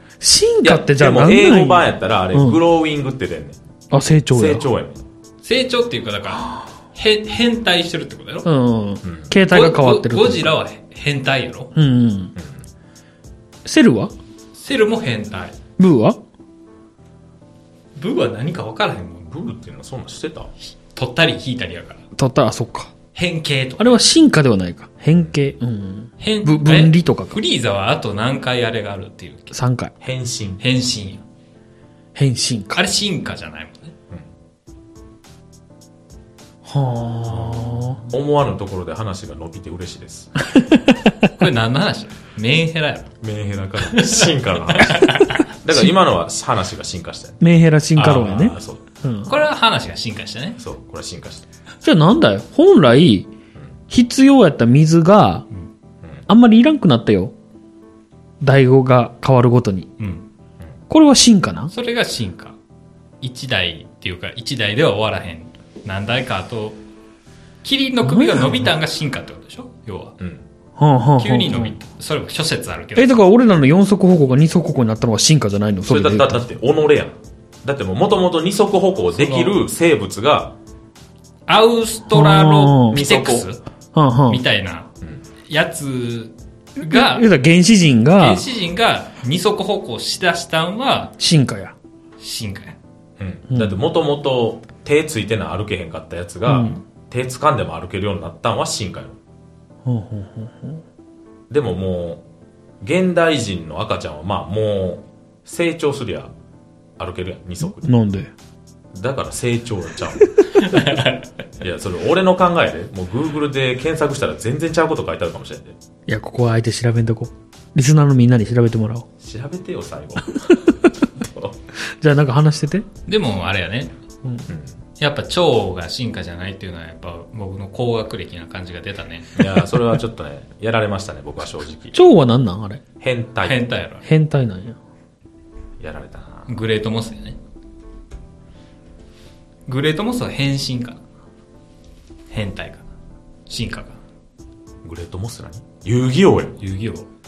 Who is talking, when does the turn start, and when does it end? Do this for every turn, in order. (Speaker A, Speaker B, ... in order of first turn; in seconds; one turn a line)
Speaker A: 0.2-2.6
Speaker B: 0.6-3.6
Speaker A: 3.9-4.7
Speaker B: 4.3-5.0
Speaker C: 5.4-8.5
Speaker A: 8.4-10.5
Speaker B: 9.0-9.3
Speaker C: 9.5-11.7
Speaker A: 11.8-12.3
Speaker A: 13.7-14.1
Speaker C: 14.6-15.6
Speaker A: 15.8-16.2
Speaker C: 18.0-19.4
Speaker B: 19.3-20.5
Speaker C: 20.9-22.0
Speaker A: 22.1-22.9
Speaker C: 23.1-24.0
Speaker A: 23.8-27.4
Speaker C: 26.2-29.6
Speaker A: 29.5-29.9
Speaker B: 30.0-30.6
Speaker C: 30.6-31.2
Speaker A: 32.1-32.8
Speaker C: 32.8-33.9
Speaker A: 36.6-38.0
Speaker C: 37.3-38.0
Speaker B: 38.1-40.6
Speaker A: 40.6-41.2
Speaker C: 41.3-43.1
Speaker B: 43.2-47.4
Speaker C: 43.9-45.4
Speaker A: 47.4-49.3
Speaker C: 48.0-48.4
Speaker B: 48.0-48.8
Speaker C: 49.3-50.6
Speaker B: 50.6-51.5
Speaker A: 51.8-53.3
Speaker A: 53.9-55.5
Speaker A: 56.3-57.3
Speaker A: 58.4-59.9
Speaker C: 60.0-60.3
Speaker A: 60.9-61.7
Speaker C: 61.7-62.6
Speaker C: 63.2-66.8
Speaker C: 67.6-70.2
Speaker A: 68.0-68.7
Speaker A: 70.8-71.7
Speaker C: 71.2-73.2
Speaker A: 73.0-76.5
Speaker B: 75.9-80.5
Speaker C: 79.2-79.6
Speaker C: 81.5-83.6
Speaker A: 82.1-83.0
Speaker B: 82.9-83.5
Speaker A: 83.9-84.4
Speaker C: 84.3-84.9
Speaker C: 85.5-87.3
Speaker A: 86.8-88.5
Speaker C: 88.2-91.1
Speaker A: 91.2-91.8
Speaker C: 92.2-92.8
Speaker B: 93.2-99.2
Speaker A: 93.5-93.8
Speaker A: 96.5-96.8
Speaker A: 99.8-100.8
Speaker B: 101.5-102.2
Speaker B: 102.8-106.3
Speaker B: 107.0-108.0
Speaker A: 107.6-108.3
Speaker B: 108.9-110.5
Speaker C: 110.5-111.3
Speaker B: 111.6-115.8
Speaker A: 116.1-119.1
Speaker B: 119.2-121.6
Speaker A: 120.4-120.9
Speaker A: 121.8-122.9
Speaker C: 123.1-124.0
Speaker B: 124.5-124.7
Speaker C: 125.0-129.4
Speaker B: 129.3-132.0
Speaker A: 131.9-132.8
Speaker B: 133.0-133.6
Speaker C: 133.4-134.1
Speaker A: 134.0-134.8
Speaker B: 135.8-136.5
Speaker C: 136.5-137.4
Speaker C: 139.7-141.0
Speaker C: 142.3-142.9
Speaker C: 143.5-144.0
Speaker B: 144.8-146.6
Speaker C: 146.6-147.1